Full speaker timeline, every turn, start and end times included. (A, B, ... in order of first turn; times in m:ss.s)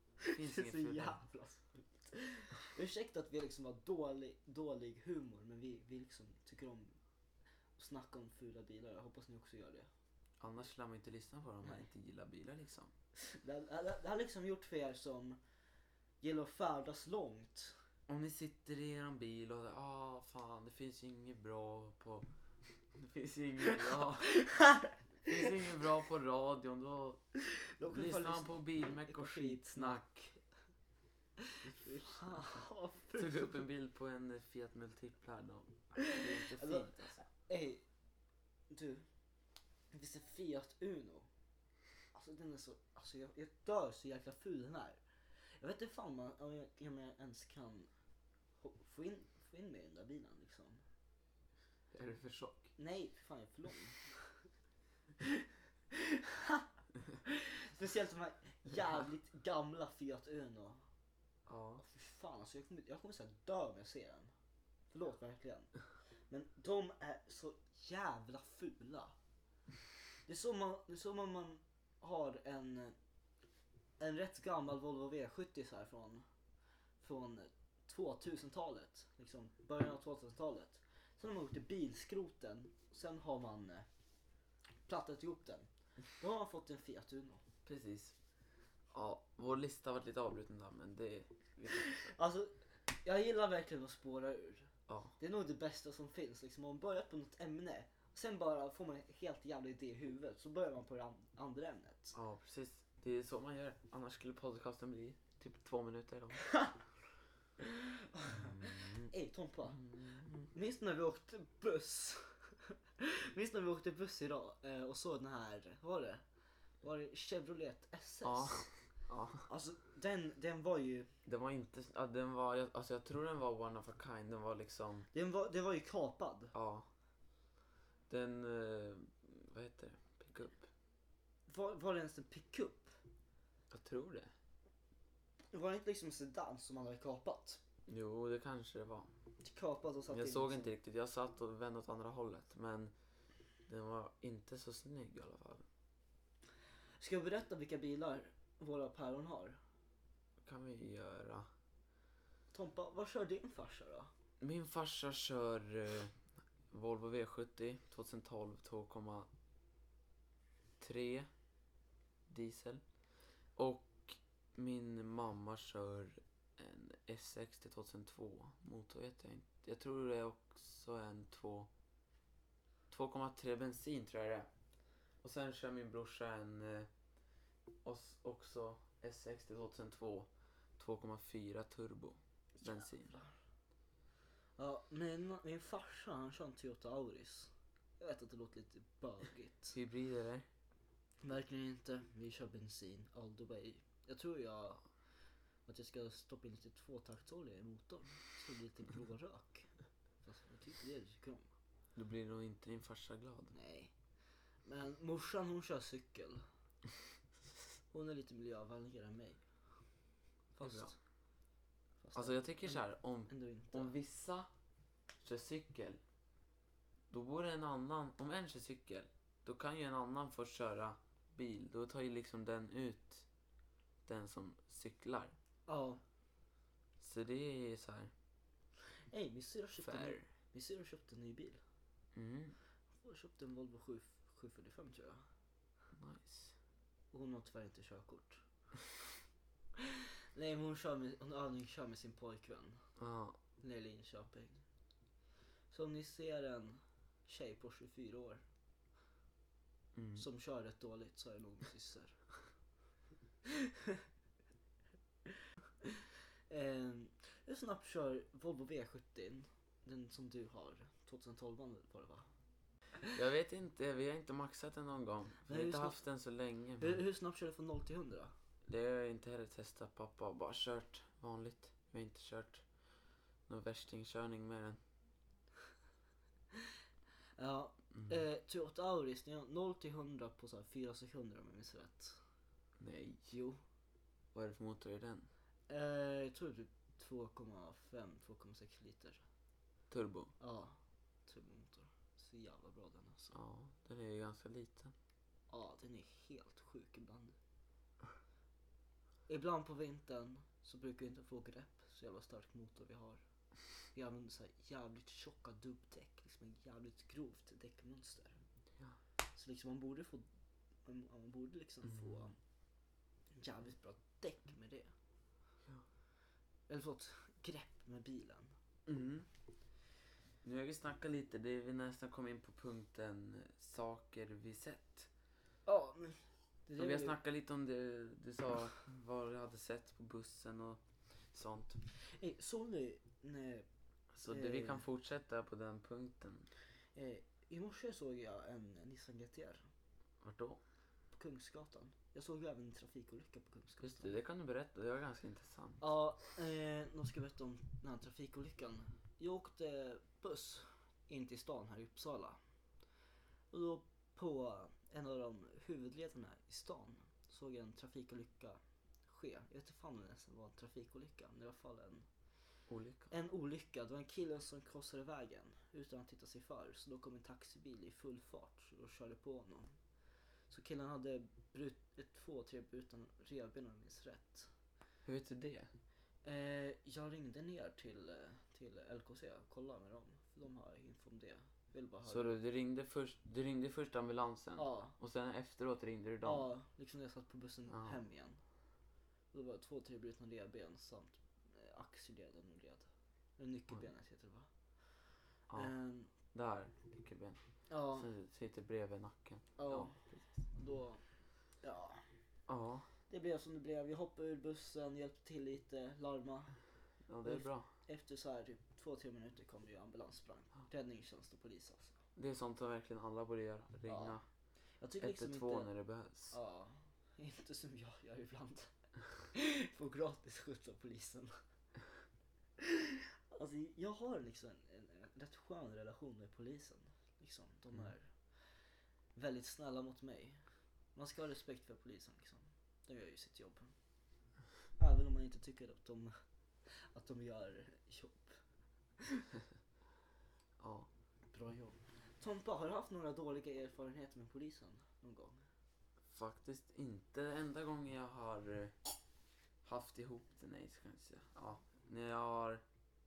0:00.2-0:07.0 A
0:00.2-0:01.2 B
0:07.8-0:09.9 A
0:10.4-0:12.9 B
0:13.2-0:15.4 A
0:16.2-0:17.8 A
0:18.1-0:22.3 B
0:22.9-0:24.4 B
0:24.2-0:25.5 A
0:25.2-0:27.2 B
0:27.6-0:30.0 A
0:27.9-0:30.4 B
0:31.7-0:32.6 B
0:31.7-0:33.6 A
0:33.2-0:37.2 B
0:36.0-0:37.8 A
0:38.7-0:39.1 A
0:39.9-0:41.3 A
0:42.1-0:45.0 A
0:45.6-0:47.9 A
0:48.6-0:50.8 A
0:51.9-0:52.8 B
0:52.8-0:54.4 A
0:55.9-0:56.7 A
0:57.2-1:00.9 A
1:01.5-1:01.8 B
1:01.8-1:04.3 A
1:04.9-1:09.2 A
1:10.2-1:13.0 A
1:14.0-1:16.2 A
1:17.0-1:23.9 A
1:24.9-1:27.4 A
1:27.6-1:28.2 B
1:28.9-1:32.2 B
1:31.7-1:42.2 A
1:34.9-1:35.2 B
1:42.1-1:46.5 B
1:47.6-1:49.9 A
1:48.3-1:49.1 B
1:49.7-1:50.5 B
1:50.5-1:56.2 A
1:56.8-1:58.7 A
1:58.2-1:59.5 B
1:59.5-2:01.1 A
2:01.2-2:05.1 B
2:05.1-2:06.5 A
2:06.5-2:06.9 B
2:08.1-2:10.7 B
2:11.5-2:13.0 A
2:13.7-2:14.3 B
2:15.5-2:17.6 A
2:17.9-2:19.1 B
2:19.4-2:20.7 A
2:20.1-2:22.9 B
2:23.7-2:25.7 B
2:27.0-2:29.6 A
2:30.4-2:31.5 B
2:32.5-2:34.1 A
2:34.4-2:39.3 B
2:40.8-2:41.3 B
2:42.3-2:42.8 B
2:43.6-2:51.7 B
2:52.9-2:54.5 B
2:55.2-2:56.9 B
2:57.8-3:03.1 B
3:02.6-3:03.3 A
3:04.6-3:09.8 A
3:09.7-3:10.5 B
3:11.2-3:14.9 A
3:15.7-3:19.7 A
3:20.2-3:21.5 A
3:22.0-3:23.5 B
3:23.5-3:23.9 A
3:24.6-3:26.5 A
3:27.9-3:29.4 A
3:30.6-3:31.0 A
3:30.6-3:31.0 B
3:32.0-3:34.0 A
3:32.1-3:34.5 B
3:35.2-3:36.0 B
3:37.1-3:43.2 B
3:44.1-3:45.4 B
3:45.7-3:46.0 A
3:47.0-3:48.1 B
3:49.1-3:51.6 A
3:49.8-3:50.3 B
3:52.1-3:52.6 B
3:53.0-3:55.2 A
3:55.9-3:56.6 B
3:57.1-3:58.5 A
3:59.8-4:02.9 A
4:03.0-4:03.4 B
4:03.6-4:04.6 A
4:05.7-4:08.4 A
4:10.0-4:10.2 B
4:10.2-4:12.2 A
4:13.6-4:14.0 A
4:16.5-4:22.3 A
4:23.1-4:27.0 B
4:25.5-4:26.0 A
4:26.8-4:28.3 A
4:28.7-4:32.7 B
4:33.5-4:34.8 B
4:37.4-4:42.2 A
4:37.9-4:38.2 B
4:42.8-4:43.3 B
4:43.3-4:43.6 A
4:44.3-4:45.3 B
4:45.7-4:49.2 A
4:49.9-4:50.3 B
4:50.4-4:53.4 A
4:53.3-4:54.9 B
4:55.5-4:57.4 A
4:59.3-5:03.2 A
5:03.9-5:08.4 A
5:09.3-5:10.2 A
5:10.8-5:12.4 A
5:11.8-5:12.3 B
5:13.4-5:14.9 A
5:16.7-5:18.6 A
5:18.9-5:19.3 B
5:20.4-5:25.1 B
5:25.7-5:27.2 A
5:26.8-5:31.8 B
5:32.0-5:33.7 A
5:34.1-5:36.5 B
5:34.3-5:34.8 A
5:37.0-5:39.7 A
5:40.2-5:40.6 B
5:41.1-5:44.2 A
5:43.8-5:45.8 B
5:45.8-5:52.4 A
5:53.5-6:02.1 A
6:02.7-6:03.1 B
6:03.1-6:09.8 A
6:10.5-6:14.5 A
6:15.0-6:15.7 B
6:16.2-6:22.4 A
6:22.0-6:26.5 B
6:24.6-6:25.0 A
6:26.2-6:28.4 A
6:27.7-6:28.0 B
6:29.3-6:34.5 A
6:35.5-6:36.1 A
6:36.3-6:37.4 B
6:37.7-6:38.1 A
6:37.9-6:40.4 B
6:39.6-6:41.0 A
6:41.6-6:42.1 A
6:42.5-6:42.9 B
6:43.1-6:46.6 A
6:47.1-6:47.7 B
6:47.2-6:52.0 A
6:52.2-6:54.2 B
6:53.9-6:54.2 A
6:54.8-6:55.7 A
6:55.0-6:56.4 B
6:56.3-7:01.3 A
7:02.6-7:08.5 A
7:09.1-7:13.7 A
7:14.8-7:18.4 A
7:19.0-7:19.3 A
7:20.6-7:20.9 B
7:21.3-7:25.4 A
7:26.1-7:28.8 B
7:29.6-7:32.6 B